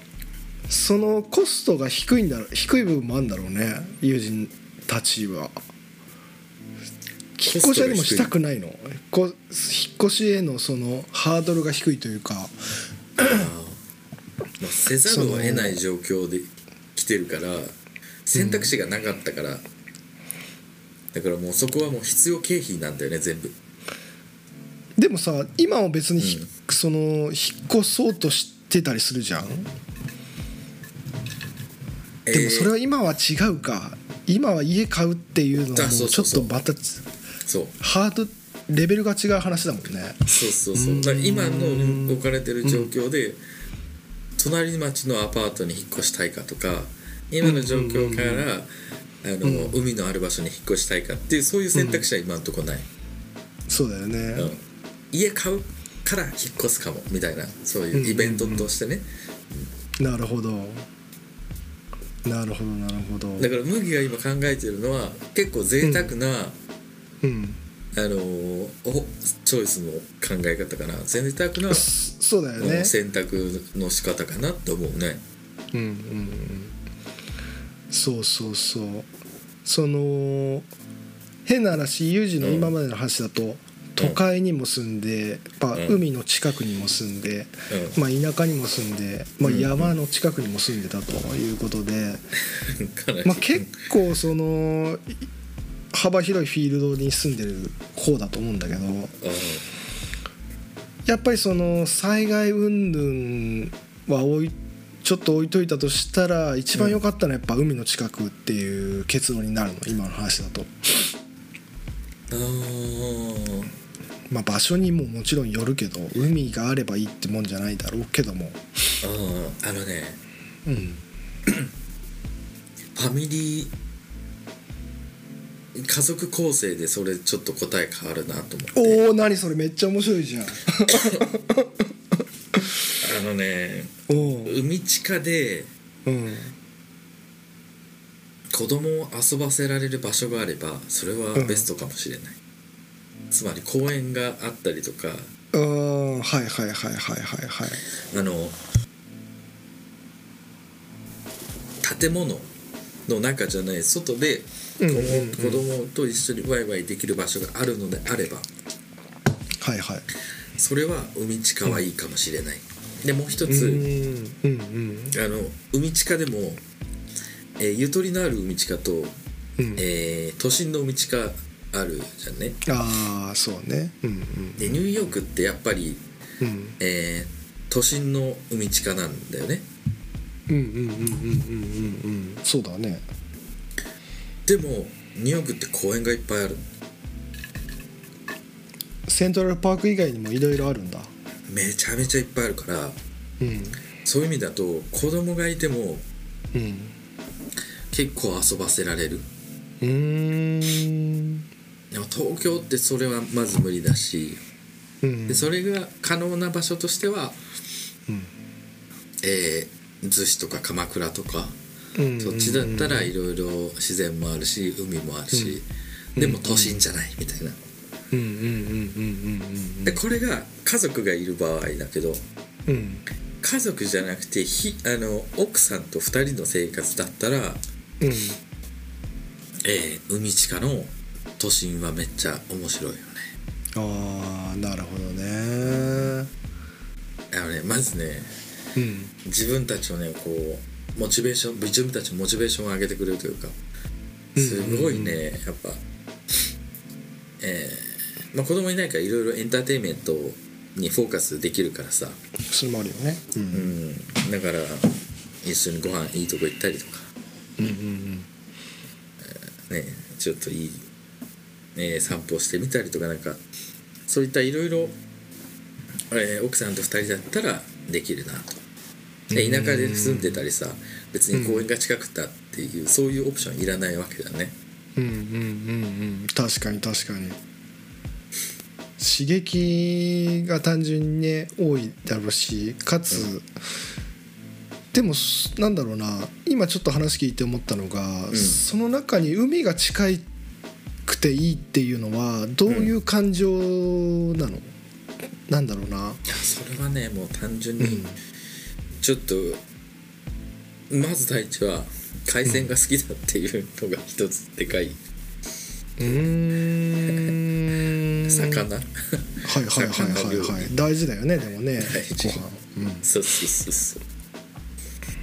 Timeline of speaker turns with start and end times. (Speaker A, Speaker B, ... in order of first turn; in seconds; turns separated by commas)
Speaker A: 0.7-5.6, Speaker A: 7.4-12.6, Speaker B: 7.5-8.3, Speaker A: 13.2-13.5, Speaker B: 13.2-13.8, Speaker B: 14.6-19.6, Speaker A: 15.1-15.8, Speaker A: 18.3-18.7, Speaker B: 21.1-23.5, Speaker A: 25.0-29.7, Speaker B: 26.2-26.5, Speaker B: 32.2-32.7, Speaker A: 32.3-37.0, Speaker B: 35.7-36.5, Speaker B: 37.5-37.7, Speaker A: 37.8-42.9, Speaker B: 40.3-43.4, Speaker B: 44.4-48.7, Speaker A: 47.4-48.5, Speaker B: 49.2-52.9, Speaker A: 49.4-49.8, Speaker A: 51.7-52.0, Speaker A: 53.7-54.5, Speaker B: 54.3-59.7, Speaker A: 57.9-58.7, Speaker A: 60.0-60.9, Speaker A: 62.2-63.5, Speaker B: 63.4-66.6, Speaker A: 65.8-66.1, Speaker A: 67.2-67.6, Speaker B: 67.9-71.9, Speaker A: 71.7-72.9, Speaker B: 72.6-75.2, Speaker A: 75.7-76.8, Speaker A: 77.9-79.1, Speaker A: 79.6-80.7, Speaker A: 81.5-92.2, Speaker B: 82.4-82.7, Speaker B: 85.7-86.0, Speaker B: 87.7-88.0, Speaker B: 89.4-89.9, Speaker B: 92.7-93.7, Speaker A: 93.2-95.2, Speaker A: 95.9-99.1, Speaker B: 99.2-99.7, Speaker A: 101.0-111.1, Speaker B: 106.7-107.0, Speaker B: 112.3-113.7, Speaker A: 114.3-118.6, Speaker B: 119.0-120.2, Speaker A: 120.7-121.0, Speaker B: 122.9-123.7, Speaker B: 125.7-129.0, Speaker A: 128.7-131.8, Speaker B: 130.9-131.2, Speaker B: 133.0-135.7, Speaker A: 134.1-134.6, Speaker A: 136.1-136.5, Speaker B: 138.5-142.4, Speaker A: 141.3-141.7, Speaker B: 143.3-145.3, Speaker A: 145.5-147.8, Speaker B: 148.0-148.6, Speaker B: 151.8-152.5, Speaker B: 153.1-158.5, Speaker A: 154.8-155.6, Speaker A: 159.6-160.1, Speaker B: 160.6-163.8, Speaker A: 163.4-165.2, Speaker B: 165.1-166.6, Speaker B: 167.6-169.1, Speaker A: 169.6-169.8, Speaker B: 169.8-172.6, Speaker A: 172.7-174.8, Speaker B: 174.6-176.0, Speaker A: 176.4-176.8, Speaker B: 176.8-179.7, Speaker A: 180.5-183.0, Speaker B: 184.4-186.7, Speaker A: 189.1-191.1, Speaker B: 191.5-193.0, Speaker A: 193.4-193.8, Speaker B: 194.0-196.1, Speaker A: 196.5-196.9, Speaker B: 197.9-199.3, Speaker A: 199.8-201.4, Speaker B: 201.9-204.4, Speaker A: 205.0-205.5, Speaker B: 205.3-207.4, Speaker B: 209.2-211.6, Speaker A: 211.9-213.1, Speaker B: 212.2-217.6, Speaker A: 215.3-215.6, Speaker A: 216.2-216.8, Speaker A: 218.1-220.0, Speaker B: 219.8-222.2, Speaker A: 222.7-223.0, Speaker B: 223.4-227.6, Speaker A: 228.0-228.4, Speaker B: 229.6-233.3, Speaker A: 233.8-236.3, Speaker B: 235.7-236.1, Speaker B: 237.3-238.3, Speaker A: 238.8-239.1, Speaker B: 239.2-243.6, Speaker A: 244.3-245.2, Speaker B: 244.4-245.8, Speaker B: 247.4-252.2, Speaker A: 252.5-253.7, Speaker B: 253.5-257.1, Speaker A: 257.6-258.3, Speaker B: 259.2-260.8, Speaker B: 261.7-263.4, Speaker B: 264.1-265.0, Speaker B: 266.1-268.6, Speaker A: 269.3-270.4, Speaker B: 269.3-274.6, Speaker A: 271.3-271.7, Speaker A: 275.0-277.4, Speaker A: 279.0-283.5, Speaker A: 284.9-290.3, Speaker B: 288.3-288.6, Speaker A: 291.1-294.7, Speaker A: 295.5-296.2, Speaker B: 296.3-298.1, Speaker A: 297.8-298.2, Speaker B: 299.0-299.6, Speaker B: 300.9-305.0, Speaker A: 306.0-308.6, Speaker B: 307.1-307.3, Speaker B: 308.2-310.7, Speaker A: 309.4-313.1, Speaker B: 311.8-312.4, Speaker B: 313.0-314.0